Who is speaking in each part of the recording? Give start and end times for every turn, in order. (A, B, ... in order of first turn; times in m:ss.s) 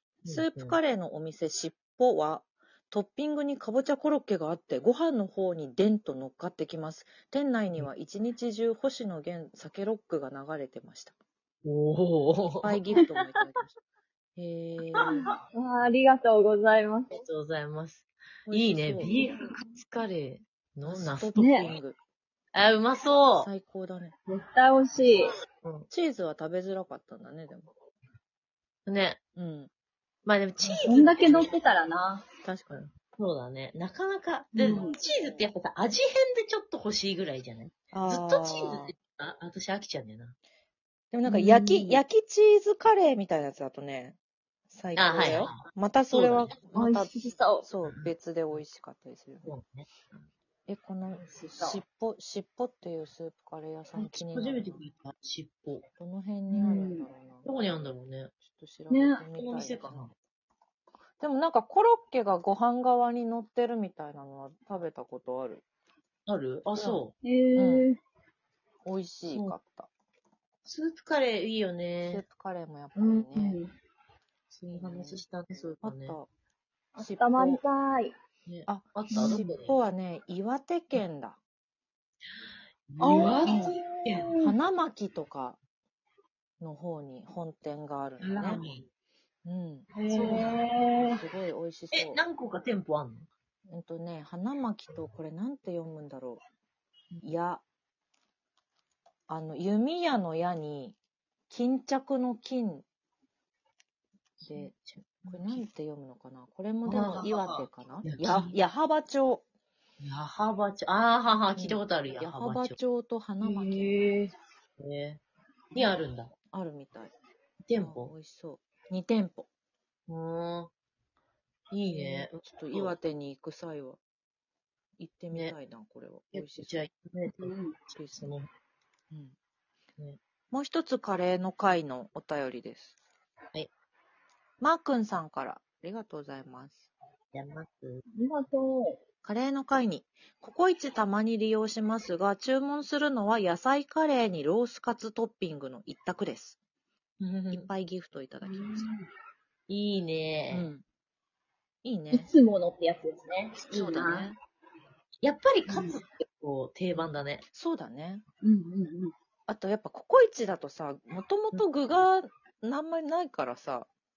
0:00.2-0:00.8 A
0:00.3-0:11.2 B
0:11.6-0:12.8 A
0:12.6-0:13.8 B
0:13.0-0:13.4 C
0:14.4-0:15.2 B
0:15.0-0:17.2 C
0:17.1-0:21.3 A
0:18.5-0:19.2 B
0:20.8-0:22.0 B
0:21.3-0:21.7 C
0:22.5-0:23.5 A
0:23.4-0:24.1 B
0:24.3-0:25.3 C
0:25.9-0:27.7 B
0:28.9-0:29.2 A
0:29.4-0:29.7 B
0:30.3-0:31.5 A
0:30.6-0:30.9 B
0:30.8-0:32.3 C
0:32.4-0:32.9 B
0:33.1-0:40.4 A
0:34.5-0:35.0 C
0:34.7-0:34.9 B
0:37.9-0:38.9 B
0:41.1-0:44.2 B
0:41.3-0:42.0 C
0:44.7-0:49.6 B
0:45.0-0:45.6 A
0:46.1-0:46.6 A
0:46.7-0:47.7 C
0:49.4-0:50.2 A
0:50.7-0:54.8 B
0:51.2-0:51.8 C
0:54.0-0:55.9 A
0:56.0-1:00.1 B
0:56.5-0:57.1 C
0:57.4-0:58.3 A
0:58.9-0:59.2 C
0:59.4-1:00.1 A
1:01.2-1:05.6 B
1:06.3-1:07.2 A
1:06.8-1:07.0 B
1:07.2-1:08.0 C
1:07.6-1:07.9 B
1:08.8-1:09.9 B
1:09.3-1:09.6 A
1:10.6-1:12.2 A
1:12.0-1:13.6 B
1:13.0-1:13.7 C
1:14.5-1:16.2 A
1:14.7-1:15.2 B
1:15.8-1:16.3 B
1:17.0-1:18.1 C
1:17.0-1:17.6 B
1:18.5-1:19.8 A
1:18.7-1:21.4 B
1:19.1-1:19.5 C
1:22.9-1:24.3 A
1:23.0-1:23.8 B
1:23.1-1:24.5 C
1:24.4-1:25.6 B
1:26.6-1:28.6 B
1:28.2-1:28.9 A
1:29.4-1:29.9 B
1:29.9-1:31.2 C
1:30.1-1:30.6 A
1:31.0-1:32.2 B
1:31.9-1:33.3 A
1:33.7-1:36.4 B
1:37.2-1:37.6 B
1:39.3-1:41.0 B
1:41.5-1:42.8 B
1:44.4-1:44.8 B
1:44.5-1:45.6 A
1:45.3-1:49.4 B
1:46.8-1:48.6 A
1:50.0-1:52.8 A
1:51.6-1:54.0 B
1:53.4-1:55.2 A
1:55.7-1:56.3 A
1:56.5-1:57.1 B
1:57.7-1:58.1 A
1:57.8-1:59.5 B
2:00.1-2:00.7 A
2:01.7-2:03.0 A
2:01.9-2:04.0 B
2:05.0-2:06.8 B
2:06.3-2:08.5 A
2:07.3-2:07.8 C
2:08.0-2:08.4 B
2:10.5-2:13.0 B
2:14.6-2:16.9 B
2:17.3-2:18.0 A
2:18.2-2:19.0 C
2:19.2-2:26.6 B
2:27.2-2:28.9 B
2:28.4-2:29.1 C
2:29.7-2:30.7 A
2:30.5-2:30.8 B
2:31.8-2:32.3 B
2:32.1-2:34.4 C
2:33.7-2:34.4 B
2:35.2-2:37.4 A
2:35.7-2:36.1 C
2:36.9-2:38.2 B
2:38.4-2:39.1 C
2:39.5-2:43.9 B